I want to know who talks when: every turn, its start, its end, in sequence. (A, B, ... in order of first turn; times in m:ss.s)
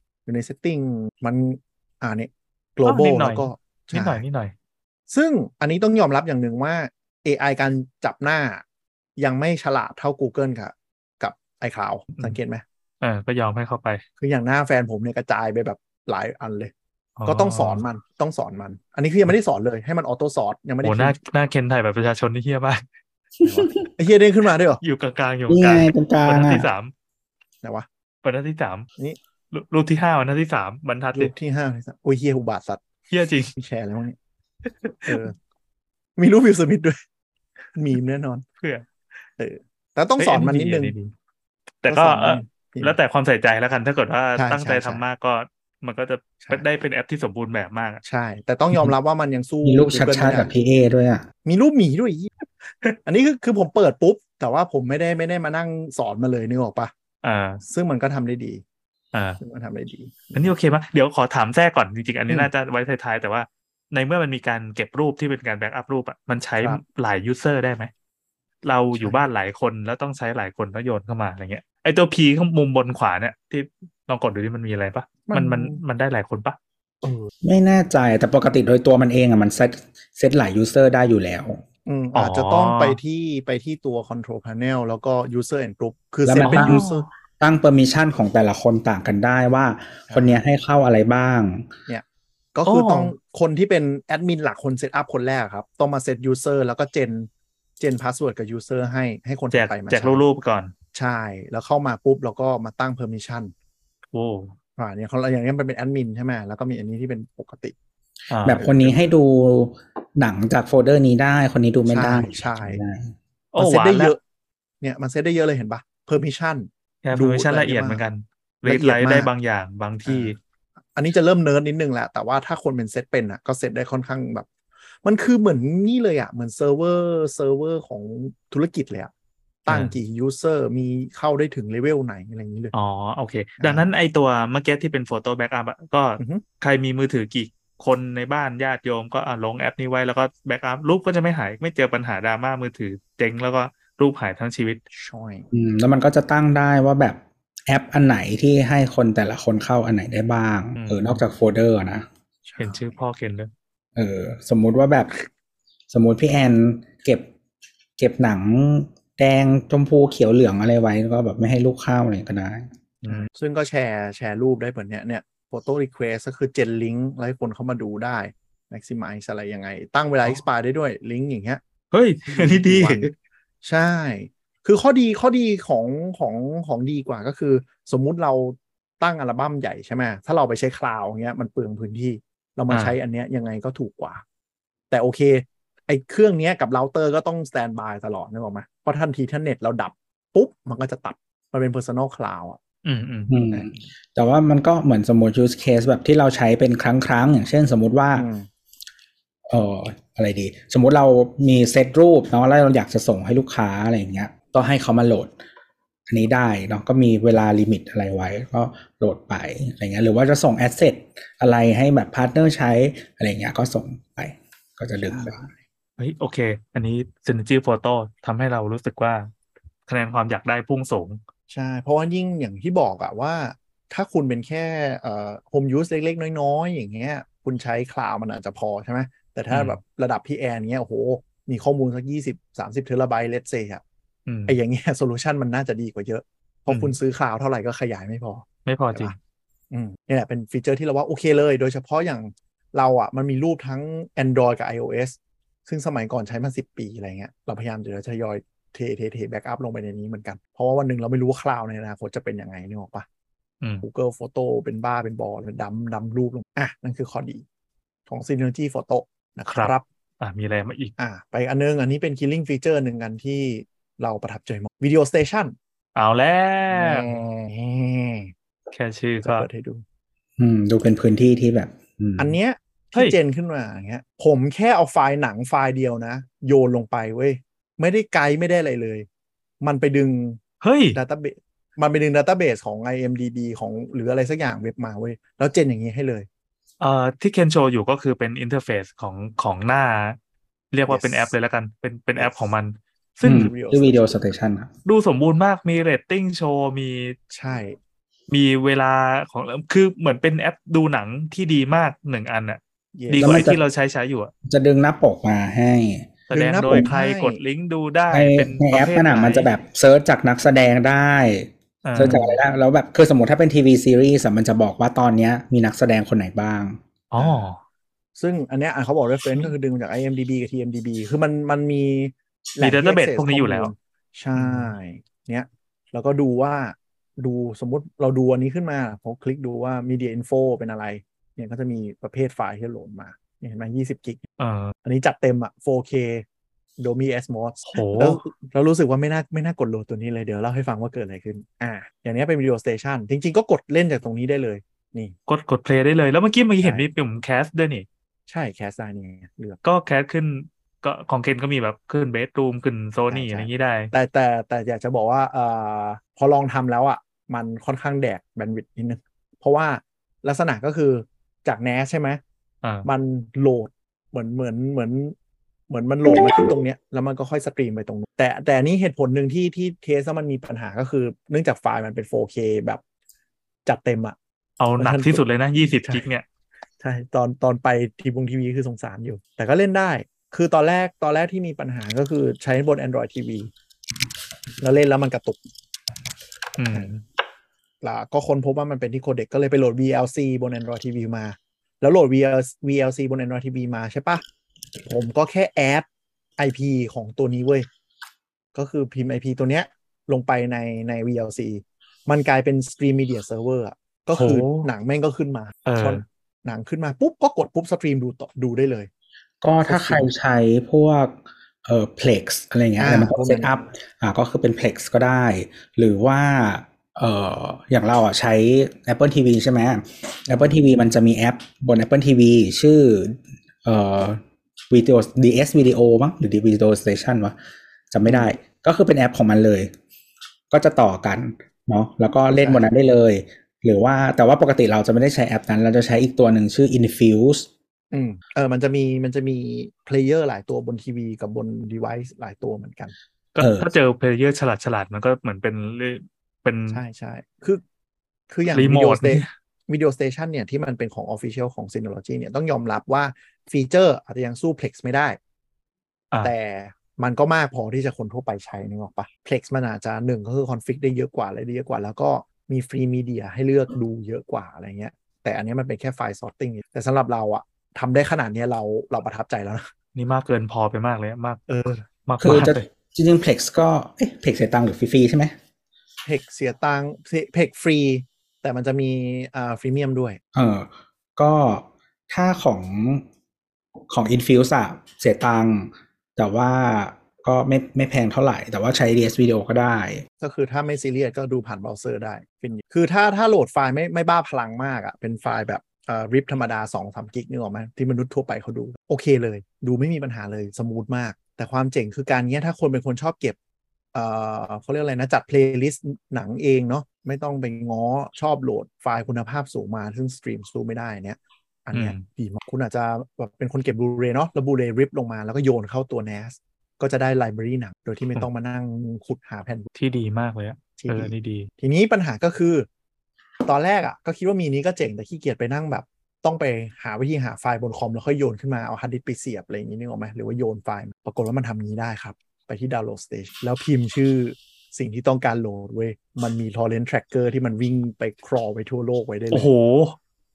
0:00.2-0:04.2 A
0:02.8-0:04.5 B
0:05.1-0:08.6 A
0:09.2-0:12.6 A
0:13.0-0:14.0 B
0:14.2-0:16.7 A
0:17.2-0:17.8 B
0:17.2-0:21.2 A
0:20.8-0:22.8 B
0:23.4-0:24.8 A
0:24.8-0:26.9 B
0:25.5-0:26.7 C
0:28.2-0:28.9 B
0:29.5-0:31.3 B
0:31.1-0:32.8 A
0:33.1-0:33.5 B
0:33.5-0:34.2 A
0:34.6-0:35.2 B
0:35.0-0:35.3 A
0:36.2-0:37.0 A
0:37.7-0:38.4 A
0:38.6-0:38.9 B
0:39.4-0:40.9 A
0:40.2-0:41.1 B
0:41.8-0:48.0 B
0:41.9-0:43.0 A
0:44.4-0:45.0 A
0:48.0-0:50.5 A
0:49.6-0:51.2 C
0:51.4-0:52.3 A
0:53.0-0:56.9 A
0:57.2-0:57.6 B
0:57.6-0:58.6 A
0:59.1-0:59.4 B
0:59.4-1:00.5 A
1:00.3-1:07.9 B
1:08.6-1:16.6 B
1:09.0-1:09.2 A
1:15.3-1:15.8 A
1:17.0-1:17.3 A
1:17.4-1:21.6 C
1:21.8-1:27.1 A
1:22.1-1:23.0 B
1:26.2-1:26.8 C
1:26.4-1:27.0 B
1:27.4-1:31.7 C
1:30.1-1:30.4 A
1:31.9-1:40.2 A
1:32.6-1:33.1 B
1:39.5-1:40.7 B
1:40.9-1:43.5 A
1:44.1-1:44.5 B
1:44.8-1:47.7 A
1:48.3-1:48.6 B
1:48.4-1:53.1 C
1:48.5-1:49.1 A
1:51.8-1:52.8 A
1:53.5-1:54.1 B
1:53.6-1:54.2 A
1:54.8-1:58.0 A
1:57.0-2:00.4 B
1:58.6-1:59.3 A
2:00.0-2:00.3 A
2:00.9-2:04.5 A
2:05.0-2:09.1 A
2:09.6-2:12.7 A
2:09.7-2:10.0 B
2:12.7-2:24.8 B
2:13.6-2:13.9 A
2:24.9-2:25.5 A
2:25.5-2:32.0 C
2:30.8-2:31.2 B
2:32.5-2:33.0 A
2:32.6-2:33.5 B
2:34.0-2:35.2 C
2:35.9-2:37.3 C
2:38.0-2:42.7 C
2:43.0-2:43.3 B
2:43.1-2:51.6 A
2:51.9-2:53.1 B
2:52.2-2:53.1 A
2:53.6-3:04.2 A
3:02.7-3:03.0 B
3:04.9-3:12.6 A
3:12.8-3:13.3 B
3:13.3-3:18.3 C
3:13.5-3:13.7 A
3:18.1-3:18.5 A
3:19.5-3:25.3 C
3:26.1-3:35.5 C
3:35.1-3:35.5 A
3:36.0-3:39.3 B
3:39.9-3:41.2 B
3:41.5-3:53.8 A
3:49.5-3:49.8 B
3:54.3-3:54.6 B
3:54.5-3:59.2 A
3:56.7-3:56.9 B
3:58.6-3:59.1 B
3:59.7-4:13.0 A
4:13.8-4:17.4 A
4:18.1-4:19.8 A
4:19.5-4:20.9 B
4:21.0-4:25.5 A
4:26.0-4:27.1 B
4:26.7-4:28.3 A
4:28.7-4:29.5 B
4:29.2-4:29.8 A
4:30.4-4:32.4 C
4:32.2-4:39.0 A
4:39.6-4:40.4 A
4:40.6-4:41.0 B
4:40.9-4:46.3 A
4:46.8-4:50.2 B
4:50.7-4:53.5 B
4:50.9-4:51.3 A
4:52.2-4:52.4 A
4:53.2-4:54.2 A
4:53.2-4:54.7 C
4:54.8-4:57.2 B
4:57.3-4:57.8 A
4:58.3-5:04.3 B
5:03.0-5:03.5 A
5:03.1-5:03.6 C
5:04.4-5:06.1 C
5:06.3-5:09.5 B
5:06.3-5:07.4 A
5:08.1-5:16.8 C
5:11.8-5:12.4 B
5:17.1-5:17.6 B
5:17.2-5:17.5 A
5:18.2-5:34.2 A
5:22.6-5:23.7 B
5:24.4-5:24.7 B
5:34.4-5:34.7 B
5:34.8-5:36.2 A
5:36.8-5:45.1 A
5:37.6-5:38.2 B
5:45.3-5:47.8 B
5:48.3-5:49.6 A
5:49.6-5:53.9 B
5:53.1-6:02.2 A
6:02.8-6:05.1 A
6:05.7-6:12.8 A
6:13.6-6:14.2 A
6:14.6-6:16.2 B
6:14.8-6:16.0 A
6:16.8-6:23.5 A
6:24.6-6:25.4 A
6:26.6-6:27.0 B
6:27.8-6:34.2 A
6:34.8-6:35.8 A
6:36.4-6:37.7 A
6:38.5-6:48.9 A
6:44.1-6:44.7 B
6:45.6-6:46.0 B
6:49.4-7:07.3 C
6:49.6-6:50.1 A
6:52.8-6:53.5 A
7:00.3-7:00.6 A
7:07.9-7:09.7 C
7:08.0-7:08.4 A
7:10.5-7:17.5 C
7:12.4-7:12.7 A
7:17.9-7:22.9 A
7:23.4-7:26.8 B
7:23.4-7:23.7 C
7:26.7-7:27.6 A
7:28.3-7:35.2 A
7:28.5-7:29.3 B
7:36.2-7:49.7 A
7:49.9-7:52.6 B
7:51.5-7:51.8 A
7:52.2-7:55.3 C
7:56.0-8:00.2 A
8:00.3-8:03.0 C
8:03.9-8:10.0 C
8:10.2-8:23.4 A
8:23.9-8:39.7 A
8:31.7-8:32.0 B
8:39.7-8:41.5 B
8:40.8-8:42.7 A
8:43.4-8:59.5 A
8:59.3-9:00.0 B